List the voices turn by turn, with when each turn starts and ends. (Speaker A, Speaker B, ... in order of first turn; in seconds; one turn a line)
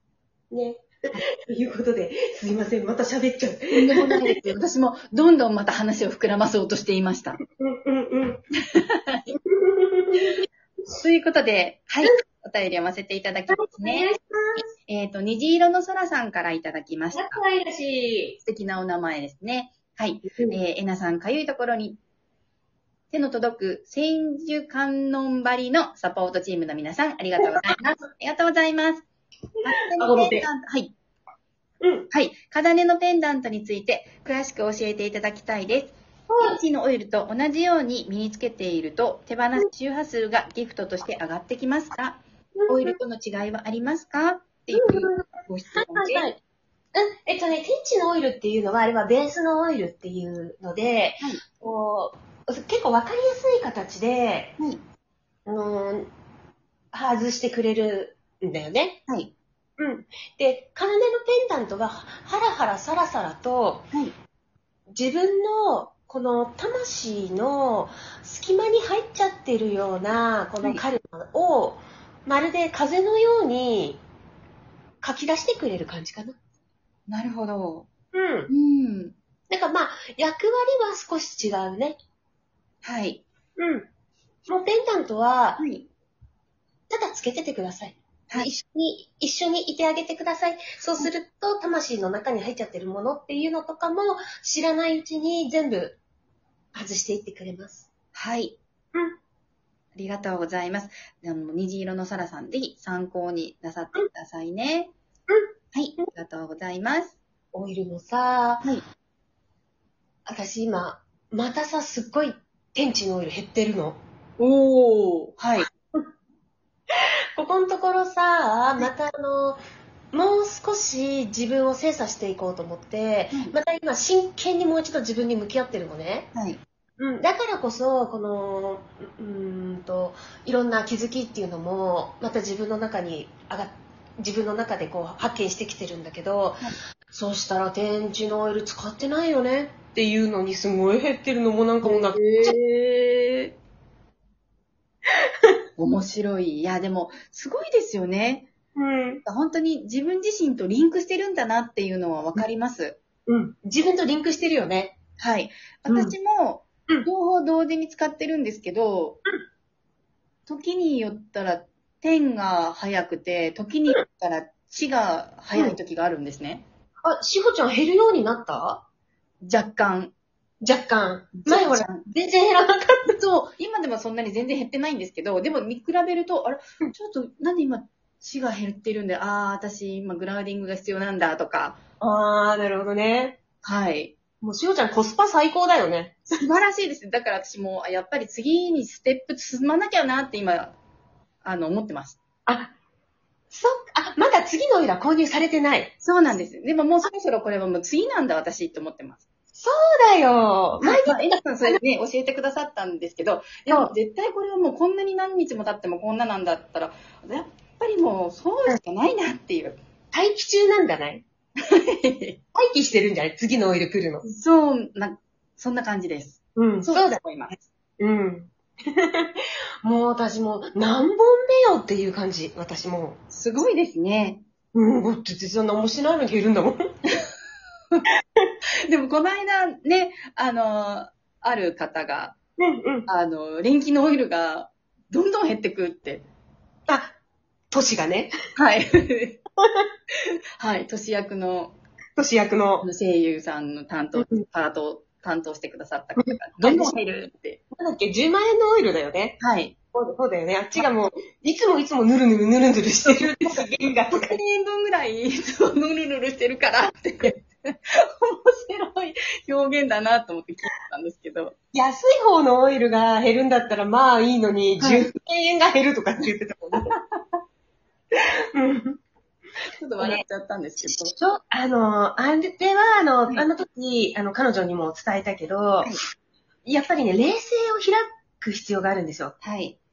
Speaker A: 0.5-4.2
Speaker B: 3.7-7.4
Speaker A: 7.5-8.4
Speaker B: 8.6-9.3
Speaker A: 9.3-10.4
Speaker B: 11.0-14.1
Speaker A: 13.5-14.7
Speaker B: 14.8-17.4
Speaker A: 17.1-18.4
Speaker B: 18.4-22.0
Speaker A: 20.3-20.6
Speaker B: 23.1-29.1
Speaker A: 27.4-27.7
Speaker B: 29.6-30.9
Speaker A: 30.0-30.5
Speaker A: 31.8-32.1
Speaker B: 32.1-46.3
Speaker A: 36.3-36.6
Speaker A: 42.5-43.0
Speaker A: 44.7-46.4
Speaker A: 46.9-54.5
Speaker A: 55.5-56.1
Speaker A: 56.9-59.0
Speaker B: 59.1-59.3
Speaker A: 59.8-63.9
Speaker A: 64.9-74.0
Speaker A: 75.0-76.4
Speaker B: 77.1-77.9
Speaker A: 78.1-78.5
Speaker B: 78.5-79.2
Speaker A: 79.5-82.0
Speaker B: 82.8-83.2
Speaker A: 83.6-83.9
Speaker A: 84.5-85.7
Speaker B: 85.6-85.9
Speaker A: 86.9-96.0
Speaker A: 96.7-97.9
Speaker B: 98.1-98.6
Speaker B: 99.9-104.9
Speaker A: 105.3-106.0
Speaker B: 105.7-107.2
Speaker A: 107.5-108.7
Speaker A: 110.2-114.0
Speaker B: 114.4-115.7
Speaker A: 115.6-116.1
Speaker A: 116.9-126.3
Speaker B: 126.3-126.6
Speaker A: 127.0-142.5
Speaker B: 141.8-143.5
Speaker B: 145.8-148.5
Speaker A: 148.8-149.2
Speaker B: 149.2-153.0
Speaker A: 153.3-154.9
Speaker B: 155.2-159.2
Speaker A: 155.9-156.1
Speaker B: 160.4-166.6
Speaker A: 167.0-168.8
Speaker B: 169.4-170.1
Speaker A: 170.6-173.1
Speaker B: 171.4-172.0
Speaker B: 173.1-181.8
Speaker A: 182.0-183.4
Speaker B: 183.6-184.1
Speaker A: 184.4-186.4
Speaker B: 186.3-190.8
Speaker B: 191.4-192.2
Speaker A: 192.4-192.7
Speaker A: 193.5-195.9
Speaker B: 196.0-199.2
Speaker A: 199.5-201.8
Speaker B: 200.8-209.8
Speaker A: 203.7-203.9
Speaker A: 210.1-211.2
Speaker B: 211.6-212.4
Speaker A: 212.5-214.2
Speaker B: 214.2-217.6
Speaker A: 216.6-217.2
Speaker A: 218.0-223.2
Speaker B: 223.3-224.4
Speaker A: 224.7-226.8
Speaker B: 228.9-232.3
Speaker A: 232.6-233.1
Speaker B: 233.1-236.2
Speaker A: 236.9-237.1
Speaker A: 237.7-238.3
Speaker B: 238.6-239.4
Speaker B: 240.6-241.8
Speaker A: 242.2-242.9
Speaker B: 242.8-247.6
Speaker A: 244.2-244.4
Speaker A: 246.2-247.0
Speaker A: 247.7-249.4
Speaker B: 249.4-249.7
Speaker A: 249.9-254.4
Speaker B: 253.5-261.5
Speaker A: 261.7-266.9
Speaker B: 264.8-265.1
Speaker B: 266.9-267.4
Speaker A: 268.5-269.0
Speaker B: 269.8-271.1
Speaker A: 270.8-275.9
Speaker A: 276.6-279.4
Speaker B: 279.4-279.8